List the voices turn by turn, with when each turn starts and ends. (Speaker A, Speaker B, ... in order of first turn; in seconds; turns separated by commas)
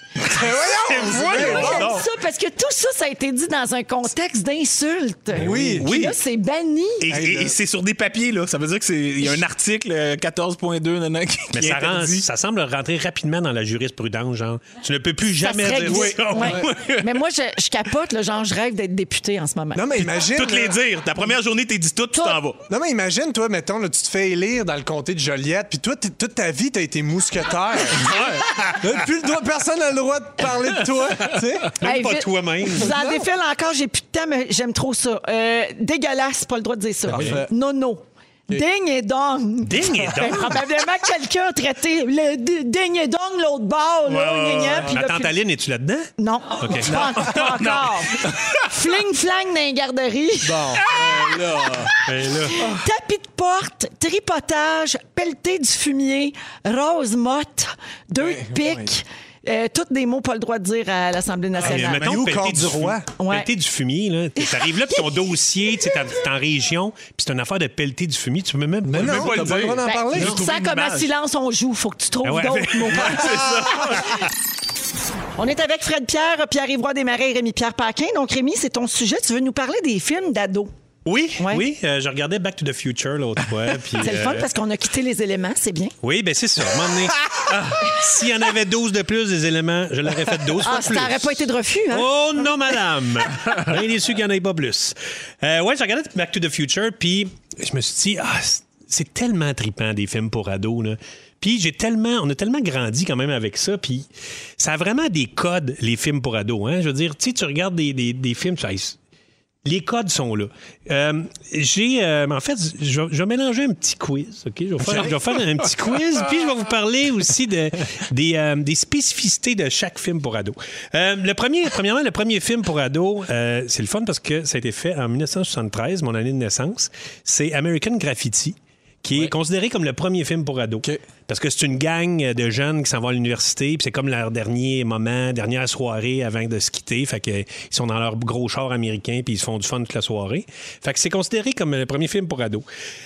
Speaker A: 0.3-1.9, Speaker B: 0.9-2.1, Speaker C: 1.0-7.1, Speaker A: 5.3-5.9, Speaker B: 5.4-6.2, Speaker B: 7.0-12.2, Speaker A: 7.1-7.5, Speaker D: 11.5-16.5, Speaker C: 15.4-19.9, Speaker B: 15.9-17.2, Speaker A: 19.7-20.8, Speaker B: 20.0-22.6, Speaker C: 22.1-22.4, Speaker A: 22.7-31.7, Speaker B: 28.1-28.7, Speaker D: 31.8-32.9, Speaker C: 31.8-45.3, Speaker A: 32.9-33.2, Speaker A: 37.1-37.5, Speaker D: 39.6-40.6, Speaker B: 44.1-44.9, Speaker D: 44.9-47.4, Speaker C: 46.2-50.9, Speaker B: 46.9-48.6, Speaker A: 50.4-51.9, Speaker D: 52.0-52.6, Speaker C: 52.6-62.1, Speaker A: 58.2-58.9, Speaker D: 61.6-69.7, Speaker A: 61.8-63.0, Speaker C: 63.2-63.5, Speaker C: 64.4-65.0, Speaker A: 68.9-70.3, Speaker B: 68.9-71.1, Speaker C: 69.8-73.5, Speaker D: 72.2-73.1, Speaker B: 72.8-74.2, Speaker C: 75.4-80.7, Speaker D: 81.0-84.5, Speaker C: 81.4-81.6, Speaker C: 84.0-85.9, Speaker D: 86.0-104.1, Speaker C: 90.6-92.1, Speaker D: 104.6-109.0, Speaker D: 109.6-142.6